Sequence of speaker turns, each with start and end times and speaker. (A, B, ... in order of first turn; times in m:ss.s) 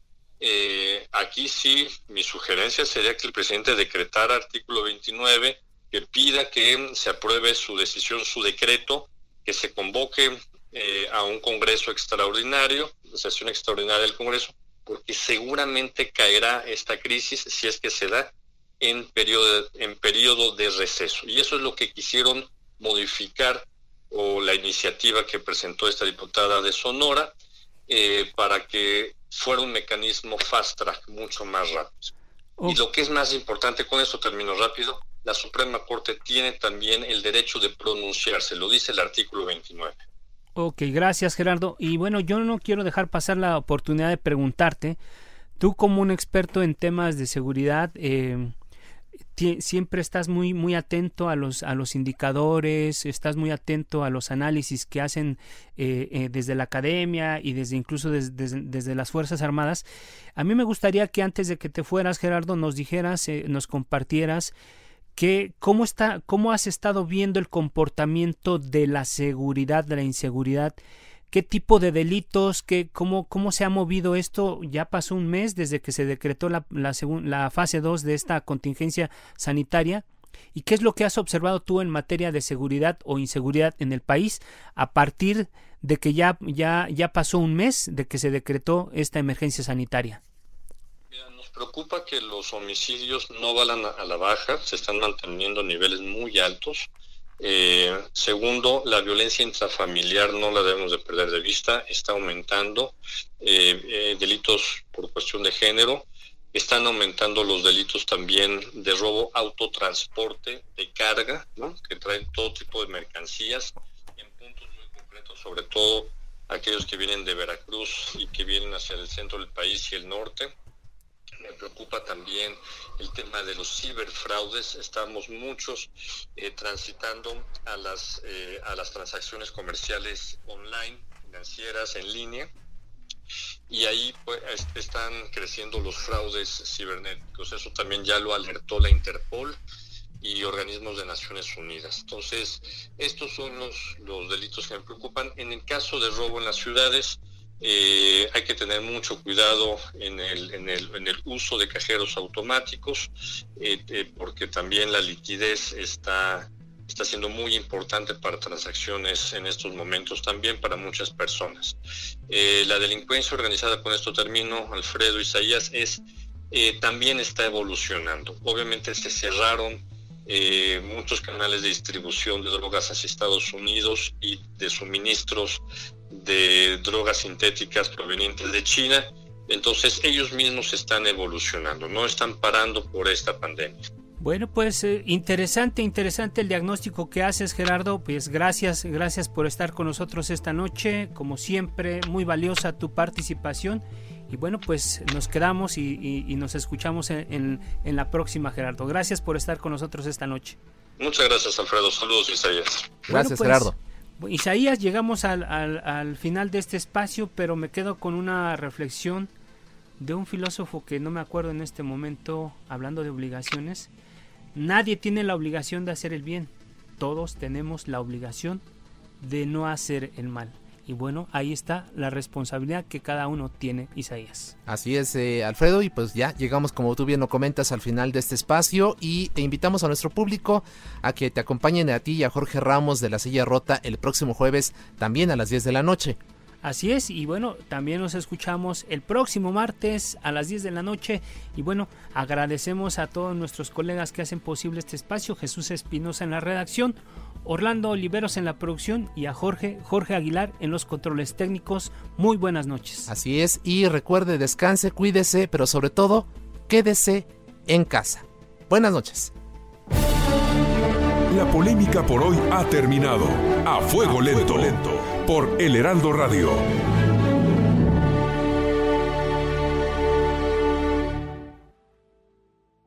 0:00.4-0:27.3 A
0:27.9-0:32.1 A
0:32.6-0:40.0 A
0:40.6-0:45.0 B
0:45.6-0:48.5 B
0:49.3-0:59.8 B
1:00.4-1:04.5 B
1:05.2-1:10.8 B
1:11.3-1:30.2 B
1:31.1-1:36.9 A
1:37.4-2:00.5 A
2:01.4-2:12.5 A
2:13.7-2:19.6 A
2:20.2-2:41.8 A
2:42.3-3:03.8 A
3:04.2-3:20.6 B
3:21.0-3:23.0 A
3:23.1-3:23.8 C
3:23.1-3:29.3 B
3:30.0-3:33.9 B
3:34.5-3:38.6 B
3:39.2-3:44.5 B
3:44.6-3:56.2 C
3:56.6-4:13.1 B
4:13.1-4:19.3 C
4:21.3-4:26.6 D